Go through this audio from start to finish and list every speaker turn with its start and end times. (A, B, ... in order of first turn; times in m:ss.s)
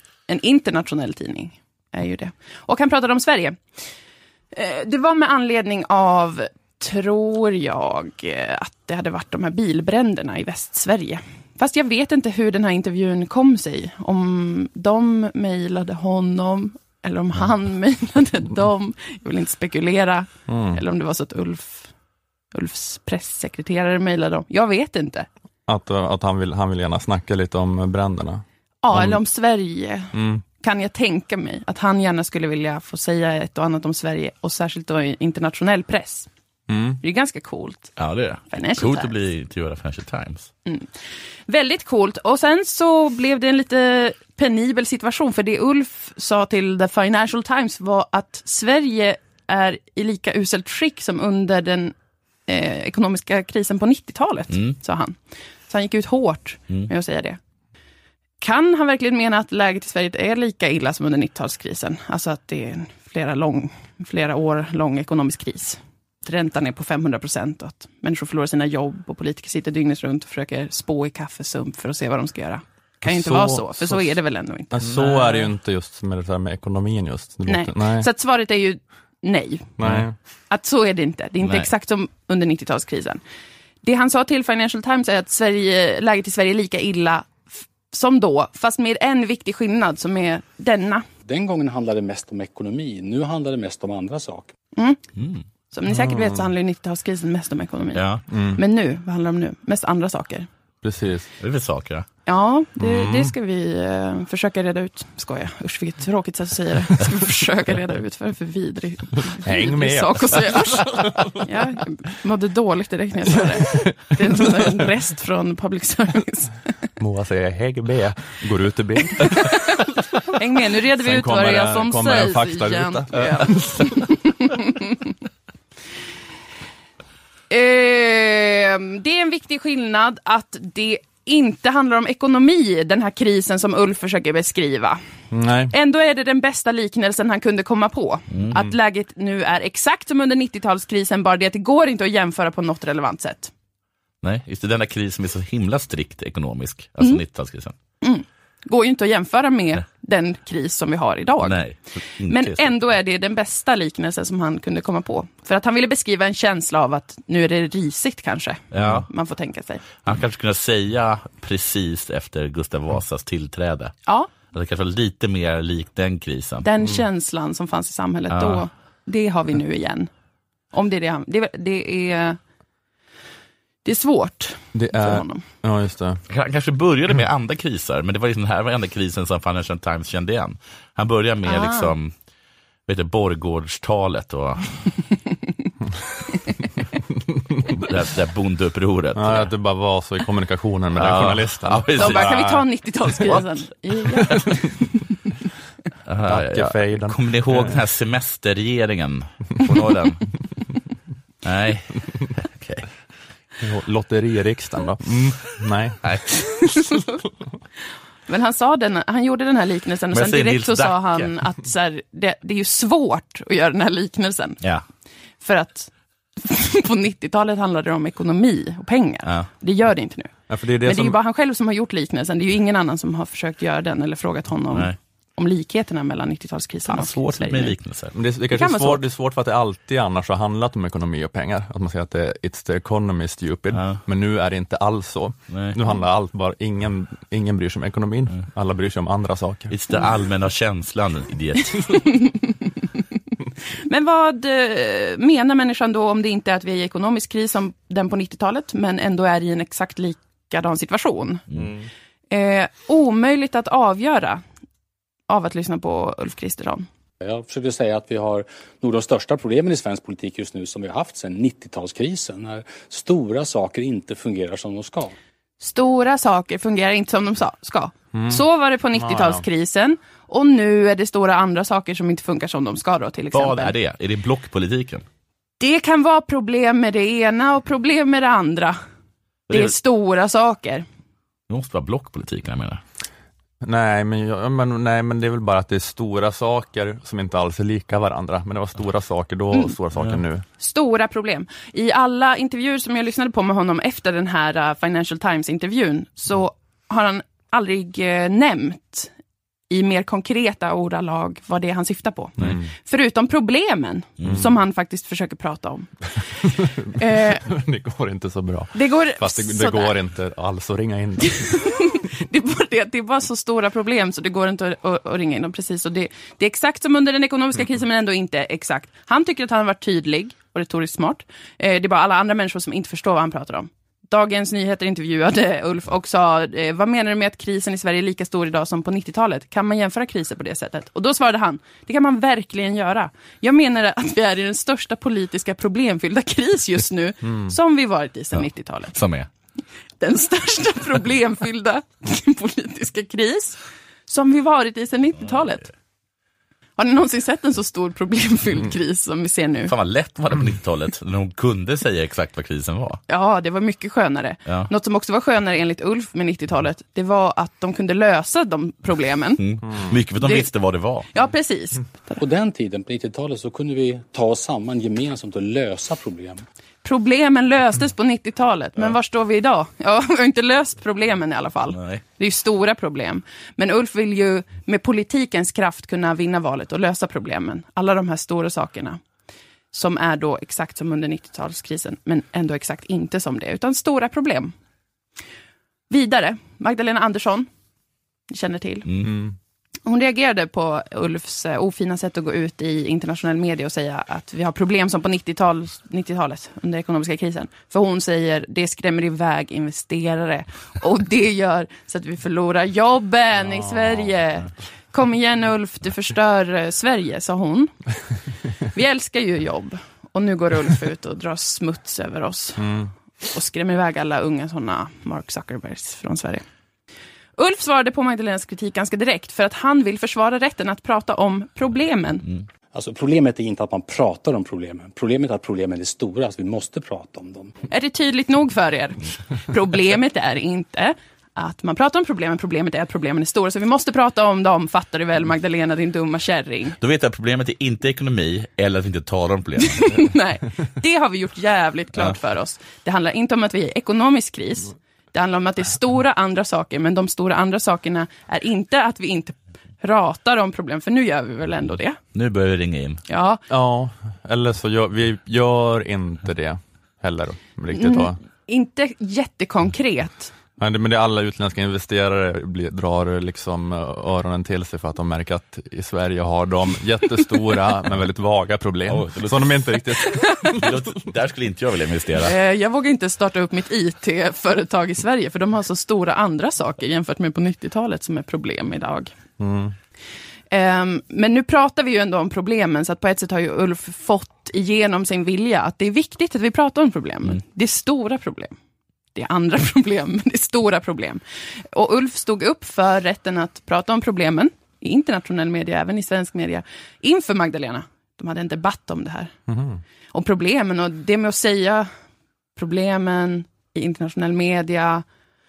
0:00.3-0:03.6 A
0:04.5-0:21.9 A
0:20.5-0:20.8 B
0:22.5-0:25.3 A
0:25.7-0:29.2 B
0:28.8-0:36.3 A
0:30.1-0:30.4 B
0:36.7-0:37.0 B
0:37.0-0:37.9 A
0:38.0-0:40.5 C
0:38.5-0:39.2 A
0:40.6-0:51.9 A
0:52.4-0:57.4 A
0:54.5-0:54.8 C
0:58.4-1:15.5 A
1:13.0-1:14.2 B
1:14.7-1:18.1 B
1:17.5-1:19.7 A
1:19.8-1:20.2 B
1:19.8-1:20.1 C
1:20.5-1:23.2 A
1:21.4-1:21.7 C
1:23.8-1:31.0 A
1:31.2-1:34.5 D
1:35.2-1:35.4 C
1:35.7-1:40.5 A
1:35.9-1:36.5 B
1:37.9-1:38.2 C
1:38.3-1:38.6 B
1:40.8-1:41.3 B
1:41.4-1:42.0 C
1:42.2-1:56.6 A
1:42.8-1:43.3 B
1:49.4-1:51.4 B
1:53.7-1:54.6 B
1:57.0-1:59.9 B
1:59.2-1:59.8 A
2:00.3-2:04.9 A
2:00.9-2:03.9 B
2:07.5-2:15.0 A
2:15.3-2:15.7 B
2:15.7-2:23.5 A
2:24.2-2:27.7 C
2:28.0-2:31.6 A
2:31.4-2:32.7 C
2:32.2-2:40.0 A
2:38.7-2:39.1 C
2:40.0-2:43.9 C
2:44.5-2:46.7 C
2:46.6-2:50.1 A
2:48.3-2:48.7 C
2:50.7-2:52.4 A
2:53.8-2:55.4 A
2:54.7-2:56.2 B
2:56.3-3:02.1 C
3:01.4-3:01.9 A
3:02.9-3:04.9 C
3:07.8-3:09.5 C
3:09.1-3:12.6 B
3:10.9-3:12.3 C
3:12.0-3:14.9 A
3:16.1-3:20.3 C
3:16.2-3:17.8 B
3:21.4-3:22.9 C
3:23.6-3:26.0 B
3:25.1-3:26.8 C
3:28.3-3:34.6 A
3:30.1-3:31.3 C
3:35.4-3:47.7 A
3:40.5-3:41.2 B
3:44.7-3:45.0 C
3:46.9-3:48.1 C
3:48.1-3:59.7 B
3:48.5-3:49.0 A
3:53.7-3:54.0 C
3:55.5-3:55.8 C
3:59.7-4:02.0 C
4:02.0-4:02.4 A
4:03.8-4:11.4 A
4:12.3-4:14.4 A
4:15.3-4:16.9 A
4:17.2-4:25.1 D
4:25.6-4:33.7 A
4:28.1-4:28.4 B
4:28.9-4:29.4 B
4:33.3-4:35.0 C
4:35.6-4:38.8 A
4:39.5-4:39.8 C
4:39.5-4:40.8 A
4:41.5-4:42.8 C
4:43.6-4:50.4 B
4:50.6-4:59.1 A
4:59.7-5:07.4 A
5:02.4-5:02.7 B
5:06.6-5:11.6 B
5:08.7-5:09.9 A
5:11.3-5:38.9 A
5:37.2-5:37.5 B
5:38.9-5:39.3 C
5:40.0-5:45.6 A
5:46.8-5:49.7 A
5:49.7-5:53.0 C
5:53.1-5:59.4 A
5:59.4-6:01.1 C
6:00.2-6:00.5 A
6:01.1-6:02.2 A
6:02.2-6:06.4 D
6:06.8-6:19.0 A
6:11.7-6:12.0 C
6:19.7-6:24.5 A
6:25.9-6:27.5 A
6:28.3-6:28.8 A
6:28.8-6:29.1 C
6:29.0-6:29.4 B
6:29.8-6:47.7 A
6:48.7-6:52.7 A
6:52.6-6:52.9 B
6:53.2-6:56.4 A
6:57.4-7:02.2 A
7:02.7-7:07.5 D
7:07.7-7:16.8 A
7:16.8-7:20.0 C
7:19.6-7:32.0 A
7:32.1-7:33.0 C
7:33.1-7:33.4 A
7:33.5-7:38.2 B
7:37.7-7:40.3 A
7:40.6-7:50.8 B
7:48.9-7:49.6 C
7:50.6-7:52.3 C
7:52.2-7:59.1 A
7:59.4-7:59.7 B
8:00.5-8:08.5 A
8:09.1-8:19.3 A
8:19.5-8:19.8 B
8:20.1-8:21.9 A
8:22.6-8:25.0 A